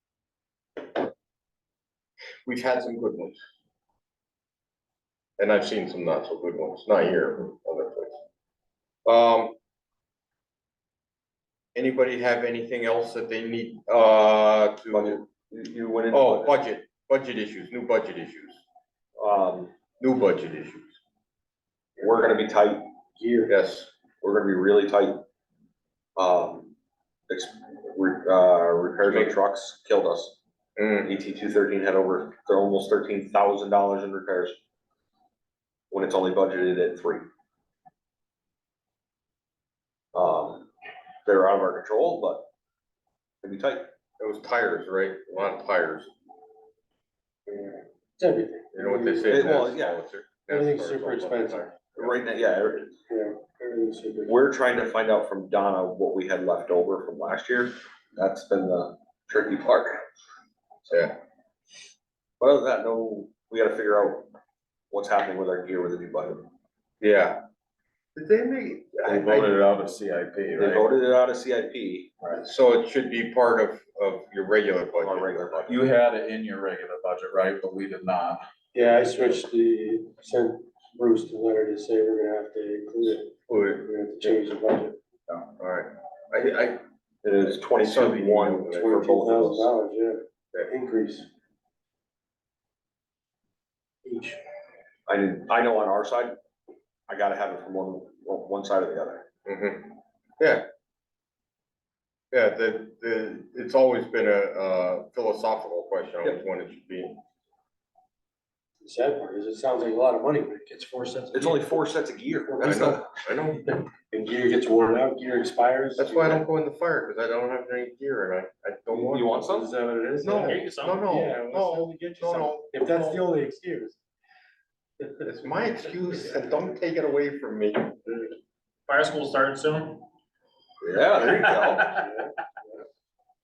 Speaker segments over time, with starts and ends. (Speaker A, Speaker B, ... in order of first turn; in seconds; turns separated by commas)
Speaker A: 2.5-3.4, Speaker A: 5.4-8.2, Speaker A: 9.1-9.6, Speaker A: 11.8-15.2, Speaker B: 14.9-16.5, Speaker A: 16.1-18.6, Speaker B: 19.2-19.7, Speaker A: 20.0-21.0, Speaker B: 22.0-22.9, Speaker C: 23.2-23.5, Speaker A: 23.5-23.9, Speaker B: 24.2-25.2, Speaker B: 26.2-26.7, Speaker B: 27.3-30.4, Speaker A: 30.8-31.1, Speaker B: 31.1-34.6, Speaker B: 35.9-37.3, Speaker B: 40.1-40.7, Speaker B: 41.3-42.5, Speaker B: 43.4-43.9, Speaker A: 44.2-46.1, Speaker C: 47.5-49.4, Speaker A: 48.7-52.2, Speaker B: 49.3-50.0, Speaker C: 50.5-51.7, Speaker B: 52.0-53.0, Speaker C: 53.1-54.4, Speaker B: 54.3-60.0, Speaker A: 60.9-61.2, Speaker B: 62.4-64.3, Speaker B: 64.9-66.5, Speaker A: 67.0-67.4, Speaker A: 68.2-69.6, Speaker D: 69.0-70.9, Speaker B: 70.6-72.1, Speaker A: 72.4-75.7, Speaker B: 75.0-75.8, Speaker D: 75.7-78.4, Speaker C: 78.7-83.3, Speaker A: 83.5-84.4, Speaker C: 83.8-85.0, Speaker A: 85.6-86.8, Speaker B: 87.2-89.7, Speaker A: 87.5-88.9, Speaker C: 88.7-91.3, Speaker C: 94.0-94.4, Speaker B: 95.1-96.3, Speaker B: 97.1-99.3, Speaker A: 99.5-100.7, Speaker A: 102.3-107.2, Speaker C: 108.8-111.7, Speaker B: 111.3-113.1, Speaker C: 112.5-112.8, Speaker A: 112.6-113.7, Speaker C: 114.1-116.4, Speaker A: 116.0-119.4, Speaker C: 119.0-124.0, Speaker B: 119.1-119.7, Speaker A: 120.2-123.2, Speaker E: 120.5-121.1, Speaker A: 125.2-128.3, Speaker E: 128.9-130.1, Speaker B: 130.8-132.0, Speaker E: 131.2-132.1